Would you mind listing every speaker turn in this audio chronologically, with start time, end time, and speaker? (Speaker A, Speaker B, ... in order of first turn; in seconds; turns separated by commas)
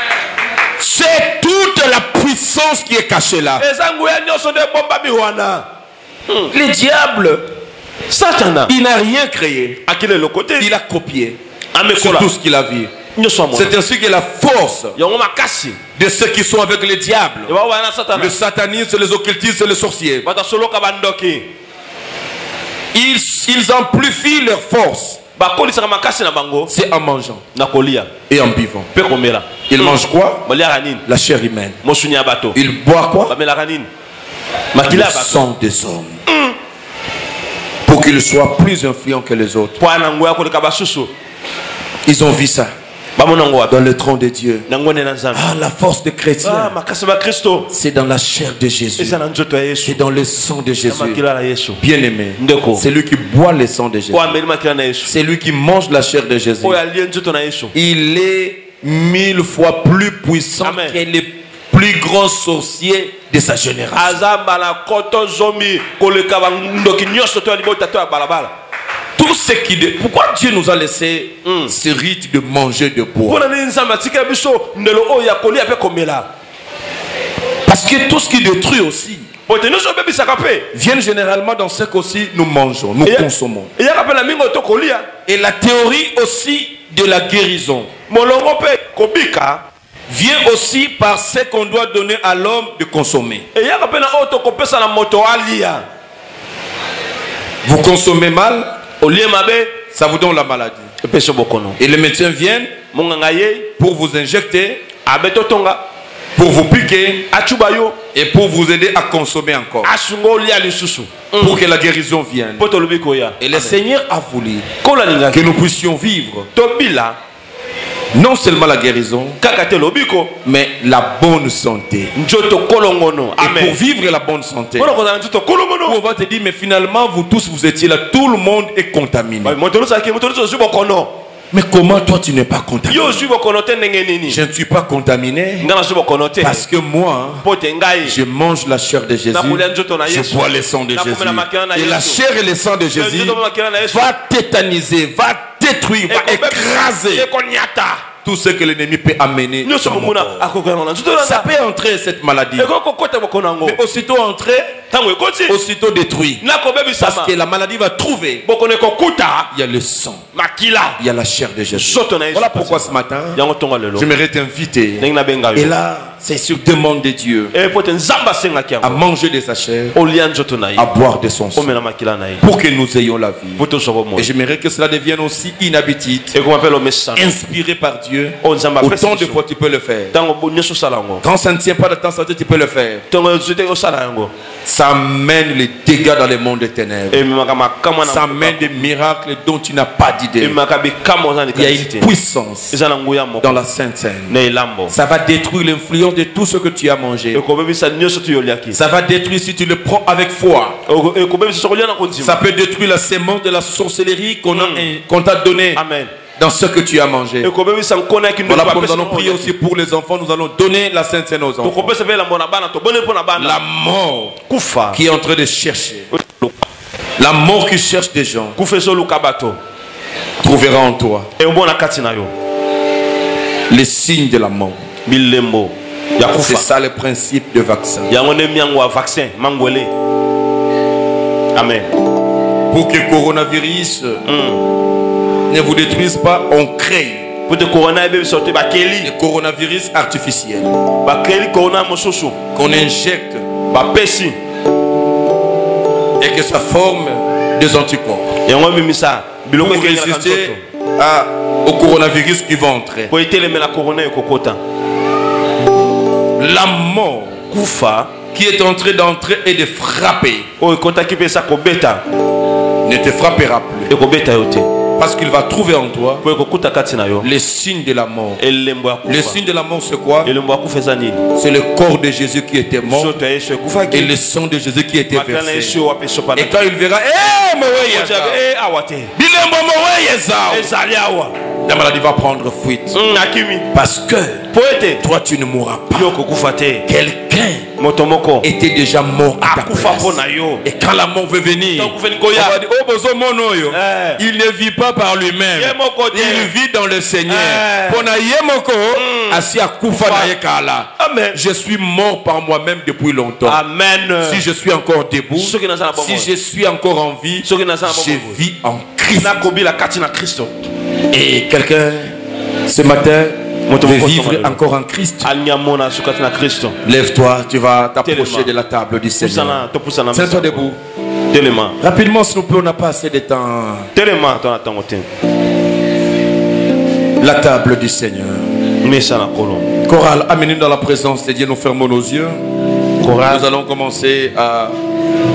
Speaker A: 0.8-3.6, Speaker B: 3.6-5.7, Speaker A: 6.5-7.5, Speaker B: 8.1-8.7, Speaker A: 8.7-9.8, Speaker B: 9.8-10.7, Speaker A: 10.6-11.4, Speaker B: 11.7-12.3, Speaker A: 11.9-12.9, Speaker B: 13.1-13.7, Speaker A: 13.5-14.9, Speaker B: 14.9-15.8, Speaker A: 15.9-17.5, Speaker B: 17.5-18.4, Speaker A: 18.1-20.2, Speaker B: 20.2-21.5, Speaker A: 22.9-25.2, Speaker B: 25.4-26.7, Speaker A: 26.7-27.4, Speaker B: 27.5-28.1, Speaker A: 28.3-28.9, Speaker B: 28.9-31.0, Speaker A: 29.7-30.4, Speaker A: 31.1-31.8, Speaker B: 31.8-32.6, Speaker A: 32.5-33.3, Speaker B: 33.3-33.9, Speaker B: 34.7-35.4, Speaker A: 34.9-36.2, Speaker B: 36.3-36.5, Speaker A: 37.9-39.8, Speaker B: 39.8-41.1, Speaker A: 42.0-42.7, Speaker B: 43.2-43.7, Speaker A: 43.7-44.6, Speaker B: 44.7-45.4, Speaker A: 45.3-46.7, Speaker B: 46.4-47.7, Speaker A: 47.7-49.2, Speaker B: 49.0-50.0, Speaker A: 49.8-51.2, Speaker B: 50.9-51.8, Speaker A: 51.8-54.4, Speaker B: 52.4-52.9, Speaker B: 54.1-55.1, Speaker A: 55.0-56.8, Speaker B: 56.6-57.7, Speaker A: 57.7-64.2, Speaker B: 60.6-61.0, Speaker B: 63.9-68.5, Speaker A: 69.2-73.4, Speaker B: 71.4-71.7, Speaker B: 73.2-76.3, Speaker A: 77.7-79.2, Speaker B: 79.5-80.7, Speaker A: 80.7-83.7, Speaker B: 83.0-85.1, Speaker A: 85.2-87.9, Speaker B: 88.1-89.6, Speaker A: 90.1-93.5, Speaker B: 93.5-95.8, Speaker A: 97.6-98.7, Speaker B: 99.0-99.8, Speaker A: 99.9-100.9, Speaker B: 101.0-101.8, Speaker A: 101.8-102.7, Speaker B: 102.9-103.7, Speaker A: 103.8-104.8, Speaker B: 105.0-105.8, Speaker A: 106.3-107.3, Speaker B: 107.3-108.0, Speaker A: 108.1-109.9, Speaker B: 109.8-111.6, Speaker A: 111.4-112.6, Speaker B: 112.6-113.8, Speaker A: 113.4-114.7, Speaker B: 114.8-115.5, Speaker A: 115.3-116.5, Speaker B: 116.5-117.2, Speaker A: 118.1-119.4, Speaker B: 119.4-120.3, Speaker A: 120.4-122.1, Speaker B: 122.1-123.8, Speaker A: 123.4-124.9, Speaker B: 124.8-126.0, Speaker A: 125.8-129.6, Speaker B: 129.4-131.1, Speaker A: 131.5-133.2, Speaker B: 132.9-134.4, Speaker A: 134.3-135.7, Speaker B: 135.6-136.7, Speaker A: 136.4-137.4, Speaker B: 137.4-138.2, Speaker A: 138.0-143.4, Speaker B: 139.3-142.2, Speaker B: 142.9-144.1, Speaker A: 143.9-147.3, Speaker B: 146.1-148.0, Speaker A: 148.2-150.4, Speaker B: 149.6-151.5, Speaker A: 151.2-152.7, Speaker B: 152.6-153.8, Speaker A: 153.6-154.8, Speaker B: 154.9-155.6, Speaker A: 155.5-156.4, Speaker B: 156.4-157.3, Speaker A: 157.0-158.4, Speaker B: 158.4-159.5, Speaker A: 159.5-160.2, Speaker B: 160.3-161.0, Speaker A: 161.0-163.4, Speaker B: 161.7-164.1, Speaker A: 163.9-167.5, Speaker B: 165.0-165.7, Speaker B: 167.5-169.0, Speaker A: 168.8-169.9, Speaker B: 169.9-170.9, Speaker A: 170.8-171.7, Speaker B: 171.5-172.4, Speaker A: 172.4-173.6, Speaker B: 173.6-174.3, Speaker A: 174.2-176.3, Speaker B: 176.3-177.4, Speaker A: 177.2-180.1, Speaker B: 178.4-179.4, Speaker B: 180.1-181.2, Speaker A: 181.2-183.0, Speaker B: 183.1-184.3, Speaker A: 184.6-187.2, Speaker B: 187.1-188.9, Speaker A: 188.0-190.6, Speaker B: 190.4-192.1, Speaker A: 191.5-192.8, Speaker B: 192.7-193.6, Speaker A: 193.4-194.3, Speaker B: 194.3-194.9, Speaker A: 194.9-197.4, Speaker B: 197.3-198.8, Speaker A: 198.7-200.8, Speaker B: 200.9-202.4, Speaker A: 202.2-205.8, Speaker B: 204.5-204.9, Speaker B: 205.7-206.1, Speaker A: 206.3-207.5, Speaker B: 207.4-209.5, Speaker A: 208.4-211.9, Speaker B: 211.6-213.6, Speaker A: 213.4-214.4, Speaker B: 214.5-215.0, Speaker A: 214.9-216.1, Speaker B: 216.1-216.6, Speaker A: 217.2-218.6, Speaker B: 218.6-219.6, Speaker A: 220.4-221.3, Speaker B: 221.4-222.3, Speaker A: 223.7-224.8, Speaker B: 225.1-226.7, Speaker A: 226.3-228.1, Speaker B: 228.1-229.9, Speaker B: 231.5-231.9, Speaker A: 232.7-234.2, Speaker B: 234.2-234.6, Speaker A: 235.5-237.3, Speaker B: 237.5-239.1, Speaker A: 239.0-240.7, Speaker B: 241.0-242.4, Speaker A: 242.5-243.4, Speaker B: 243.7-244.3, Speaker A: 246.2-248.3, Speaker B: 248.4-250.6, Speaker A: 249.6-253.1, Speaker B: 253.1-254.6, Speaker A: 256.4-257.4, Speaker B: 257.5-258.1, Speaker A: 258.3-260.5, Speaker B: 260.6-262.0, Speaker A: 262.8-263.9, Speaker B: 263.9-264.7, Speaker A: 265.0-266.2, Speaker B: 266.2-267.3, Speaker A: 267.2-268.4, Speaker B: 268.4-269.4, Speaker A: 269.1-270.3, Speaker B: 270.2-271.2, Speaker A: 271.3-273.1, Speaker B: 272.9-274.1, Speaker A: 273.9-275.8, Speaker B: 275.1-276.6, Speaker A: 276.4-278.4, Speaker B: 277.9-279.1, Speaker A: 279.1-280.7, Speaker B: 280.5-281.3, Speaker A: 281.6-282.9, Speaker B: 282.9-283.7, Speaker A: 283.7-284.4, Speaker B: 284.5-285.0, Speaker A: 285.0-286.2, Speaker B: 285.9-286.9, Speaker A: 286.9-287.7, Speaker B: 287.8-288.5, Speaker A: 288.4-303.6, Speaker B: 289.4-290.6, Speaker B: 291.8-292.6, Speaker B: 293.7-294.2, Speaker B: 295.6-296.5, Speaker B: 297.3-298.1, Speaker B: 298.9-299.4, Speaker B: 300.0-300.3, Speaker B: 301.0-301.4, Speaker B: 303.4-304.4, Speaker A: 304.2-309.4, Speaker B: 305.4-306.3, Speaker B: 307.4-308.4, Speaker B: 309.2-310.5, Speaker A: 311.1-312.1, Speaker A: 312.6-315.3, Speaker B: 313.7-314.6, Speaker B: 315.2-316.8, Speaker A: 316.8-320.8, Speaker B: 318.0-318.5, Speaker B: 319.2-320.7, Speaker B: 321.3-321.8, Speaker A: 321.8-323.9, Speaker B: 323.9-325.1, Speaker A: 327.2-328.5, Speaker B: 328.8-329.7, Speaker A: 329.8-332.4, Speaker B: 333.0-333.5, Speaker A: 333.3-334.8